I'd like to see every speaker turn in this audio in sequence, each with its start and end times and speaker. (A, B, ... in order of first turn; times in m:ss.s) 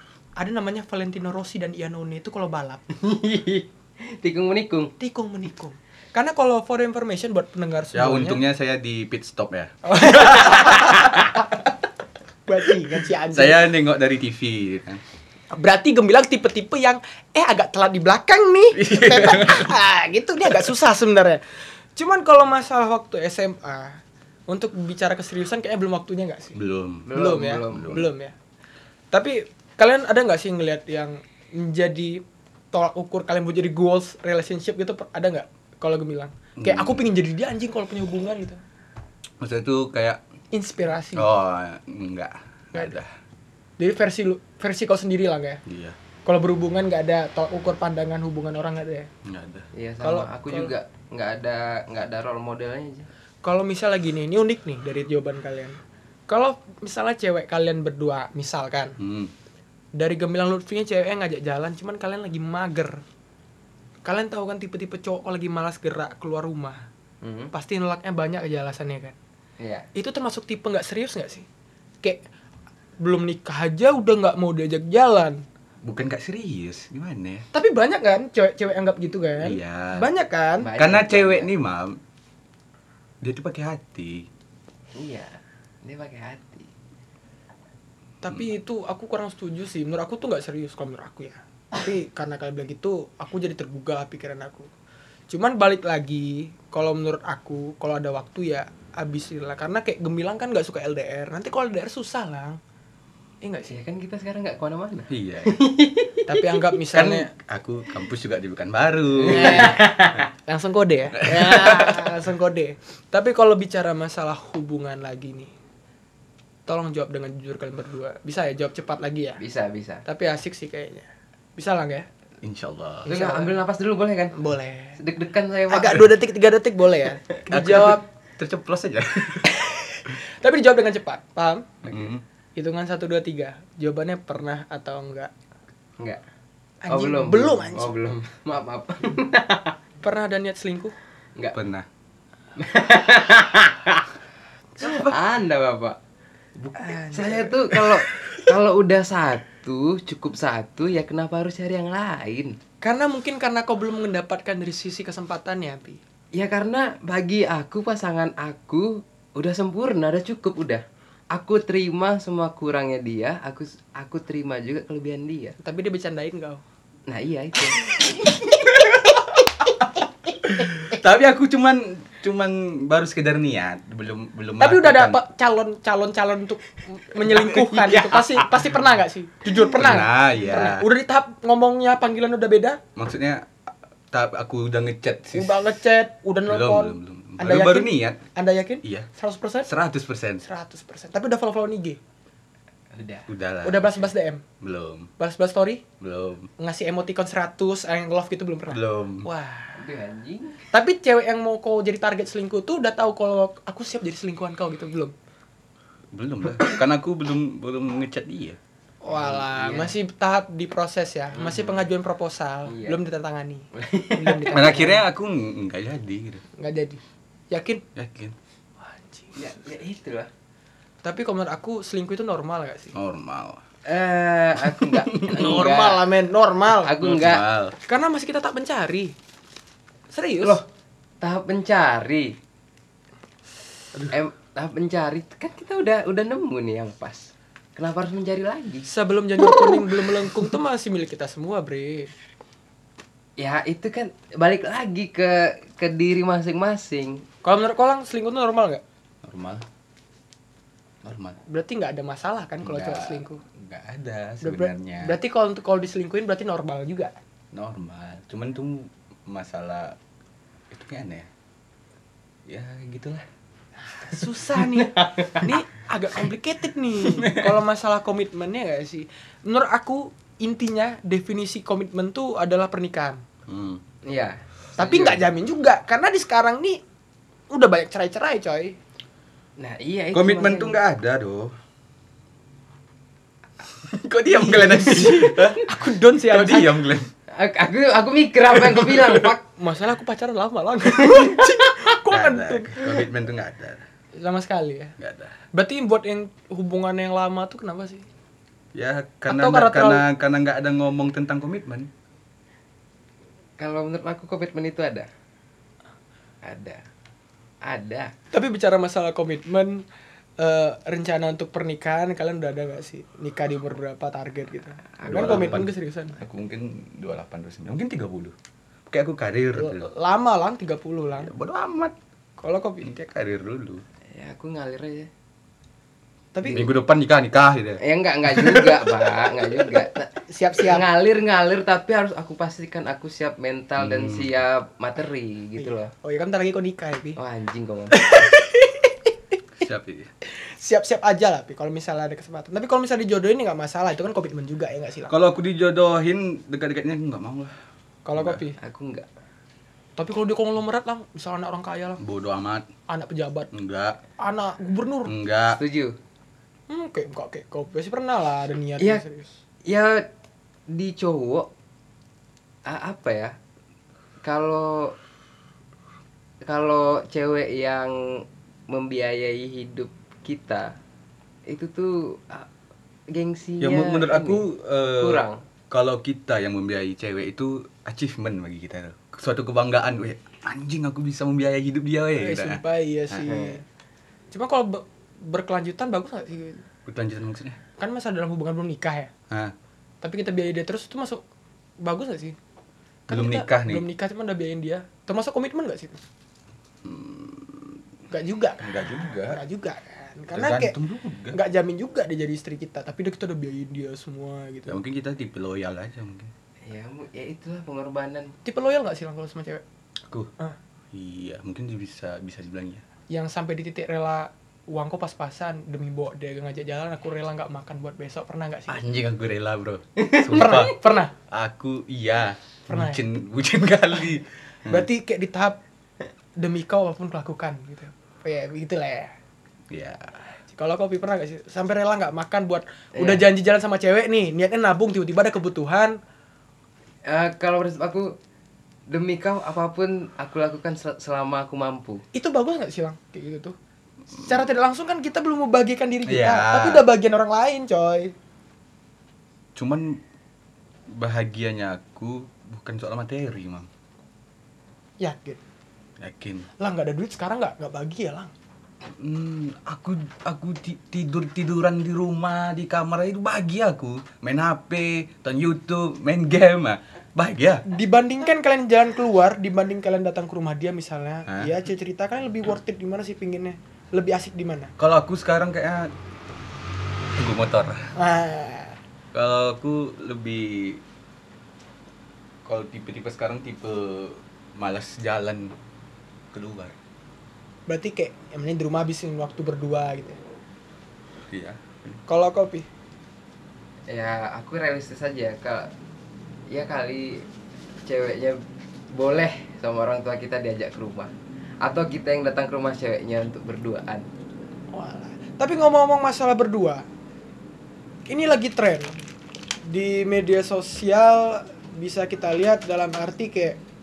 0:00.4-0:02.8 A
0:02.9-0:04.9 B
0:05.0-0:08.4 A
0:07.9-0:11.4 C
0:09.8-0:11.2 A
0:12.5-0:13.7 A
0:13.3-0:15.0 C
0:15.5-0:21.4 A
0:18.7-0:19.8 C
0:22.0-0:26.6 A
0:26.6-0:28.1 C
0:27.1-0:28.0 B
0:27.1-0:28.3 A
0:29.1-0:38.6 A
0:36.6-0:37.0 C
0:39.4-0:40.2 C
0:40.5-0:41.3 A
0:41.1-0:43.1 C
0:43.8-0:45.6 A
0:45.7-0:46.0 C
0:46.2-0:49.1 A
0:49.2-0:49.7 C
0:49.8-0:53.1 B
0:50.0-0:50.7 A
0:53.4-0:59.0 A
0:59.0-0:59.3 C
1:00.0-1:03.0 A
1:04.0-1:06.9 A
1:07.2-1:07.5 B
1:07.5-1:09.2 A
1:09.6-1:09.9 B
1:10.0-1:11.5 A
1:13.0-1:15.4 A
1:15.8-1:17.5 C
1:17.5-1:20.7 A
1:19.4-1:20.1 C
1:20.6-1:21.5 B
1:20.8-1:22.0 C
1:23.2-1:24.3 C
1:25.0-1:26.7 B
1:28.2-1:34.7 A
1:35.3-1:42.6 A
1:43.4-1:43.7 A
1:43.7-1:46.6 B
1:45.1-1:45.6 C
1:46.3-1:47.3 A
1:46.9-1:49.9 C
1:49.2-1:50.3 B
1:49.3-1:55.5 A
1:51.2-1:52.1 C
1:56.7-1:59.4 A
1:59.4-2:00.0 B
2:00.0-2:02.1 A
2:02.4-2:03.1 C
2:03.1-2:03.6 A
2:03.1-2:04.4 B
2:04.4-2:05.0 A
2:05.0-2:06.1 B
2:05.7-2:08.0 A
2:07.5-2:09.5 C
2:09.6-2:11.9 A
2:11.9-2:12.2 C
2:12.6-2:15.3 A
2:16.8-2:18.0 A
2:16.9-2:19.8 B
2:20.0-2:21.0 A
2:21.5-2:21.9 C
2:22.6-2:24.1 B
2:24.8-2:26.0 B
2:24.8-2:25.2 C
2:26.8-2:27.7 A
2:27.1-2:32.6 B
2:32.8-2:36.0 A
2:36.3-2:45.6 B
2:45.6-2:46.6 A
2:47.1-2:48.4 B
2:50.4-2:55.2 C
2:54.6-3:02.8 A
2:57.2-2:58.6 C
2:59.5-3:00.9 C
3:03.0-3:03.5 C
3:04.1-3:05.6 C
3:05.3-3:09.7 A
3:06.5-3:08.2 C
3:09.6-3:10.4 C
3:10.4-3:12.0 A
3:12.9-3:13.3 B
3:13.3-3:14.1 C
3:13.6-3:14.4 A
3:14.6-3:15.1 C
3:15.2-3:15.8 A
3:16.0-3:16.5 C
3:16.6-3:19.8 A
3:18.7-3:19.3 C
3:19.8-3:20.6 B
3:20.7-3:25.1 A
3:26.1-3:28.6 C
3:29.0-3:35.0 A
3:29.1-3:30.0 B
3:31.4-3:31.9 B
3:32.7-3:33.0 B
3:33.7-3:34.7 B
3:34.5-3:36.4 C
3:36.6-3:37.8 A
3:38.0-3:38.4 C
3:38.8-3:39.4 A
3:39.4-3:40.3 B
3:41.0-3:42.9 A
3:42.9-3:43.6 C
3:43.9-3:46.1 B
3:44.6-3:45.7 C
3:45.3-3:46.9 A
3:46.8-3:47.4 B
3:47.0-3:47.8 C
3:47.9-3:49.2 A
3:50.1-3:50.6 A
3:51.2-3:52.4 B
3:54.1-3:58.9 B
3:58.9-4:02.1 A
4:03.4-4:07.2 B
4:07.4-4:08.8 A
4:09.2-4:09.6 C
4:11.0-4:11.4 C
4:11.5-4:13.4 A
4:12.7-4:15.2 C
4:14.4-4:17.2 A
4:17.5-4:20.0 C
4:20.7-4:21.3 C
4:22.5-4:23.2 C
4:24.0-4:33.2 A
4:24.6-4:25.5 B
4:27.1-4:27.5 C
4:33.5-4:33.8 C
4:34.0-4:35.2 B
4:34.8-4:36.8 A
4:37.5-4:38.8 A
4:39.6-4:40.8 B
4:40.1-4:41.6 C
4:43.8-4:47.1 C
4:44.3-4:46.8 A
4:47.3-4:49.4 B
4:48.6-4:49.3 C
4:49.4-4:53.0 A
4:52.1-4:53.8 C
4:54.2-4:55.0 A
4:55.0-4:55.3 C
4:55.5-4:58.0 A
4:58.8-5:01.9 C
4:59.3-5:00.1 A
5:03.6-5:05.1 B
5:06.4-5:06.8 B
5:07.6-5:08.1 B
5:08.3-5:09.8 A
5:10.4-5:16.2 A
5:15.0-5:15.6 B
5:15.0-5:18.4 C
5:18.9-5:19.9 C
5:19.6-5:21.3 A
5:21.2-5:22.0 C
5:22.4-5:23.0 A
5:22.8-5:23.8 C
5:24.1-5:25.1 B
5:26.4-5:26.7 A
5:26.5-5:27.8 C
5:27.8-5:35.9 B
5:28.3-5:28.8 C
5:30.3-5:30.8 A
5:33.8-5:34.3 C
5:35.6-5:37.2 A
5:37.2-5:38.3 B
5:37.9-5:39.1 A
5:39.6-5:40.1 C
5:40.6-5:45.1 A
5:45.1-5:47.6 C
5:48.0-5:48.6 A
5:48.6-5:49.1 B
5:50.0-5:52.0 A
5:52.0-5:52.7 C
5:52.9-5:53.5 A
5:53.5-5:54.0 C
5:54.2-5:55.1 A
5:55.0-5:55.6 C
5:55.5-5:56.0 B
5:56.7-5:59.3 A
5:59.7-6:00.1 B
6:00.7-6:01.5 B
6:02.7-6:03.4 B
6:04.2-6:05.0 B
6:06.4-6:10.8 B
6:11.5-6:12.5 B
6:13.1-6:14.4 B
6:13.6-6:22.6 C
6:15.0-6:15.4 B
6:22.2-6:23.6 A
6:23.2-6:23.6 B
6:24.3-6:26.6 A
6:26.9-6:27.6 C
6:27.8-6:29.1 A
6:30.0-6:31.2 A
6:31.8-6:32.4 A
6:33.1-6:36.0 A
6:33.1-6:33.9 C
6:36.8-6:37.8 C
6:38.1-6:40.8 A
6:38.6-6:39.4 C
6:40.3-6:41.4 C
6:41.3-6:44.8 A
6:44.7-6:46.3 C
6:46.6-6:48.3 B
6:48.4-6:49.6 A
6:50.9-6:52.8 C
6:53.1-6:58.8 A
6:58.7-7:04.9 C
7:00.0-7:00.7 B
7:00.3-7:01.1 A
7:02.7-7:03.0 A
7:04.7-7:05.6 A
7:06.4-7:09.1 A
7:09.7-7:10.2 C
7:10.5-7:16.0 A
7:13.0-7:13.3 B
7:17.0-7:18.1 B
7:18.9-7:22.0 B
7:22.1-7:23.6 A
7:24.1-7:28.1 A
7:26.1-7:26.8 C
7:29.6-7:30.0 C
7:30.9-7:33.7 C
7:35.0-7:35.4 A
7:36.0-7:36.5 C
7:36.6-7:38.3 A
7:39.0-7:47.6 C
7:47.7-7:54.7 A
7:51.3-7:51.5 C
7:54.8-7:55.9 C
7:57.2-7:57.9 C
7:58.0-7:58.8 A
7:59.1-8:00.8 C
8:02.4-8:05.5 C
8:06.3-8:06.8 C
8:07.7-8:10.2 A
8:11.3-8:12.0 C
8:12.1-8:12.7 A
8:13.9-8:15.7 B
8:16.5-8:17.2 B
8:17.9-8:18.4 B
8:18.9-8:21.1 B
8:21.6-8:24.1 B
8:24.7-8:26.8 A
8:28.1-8:29.0 A
8:29.6-8:33.6 A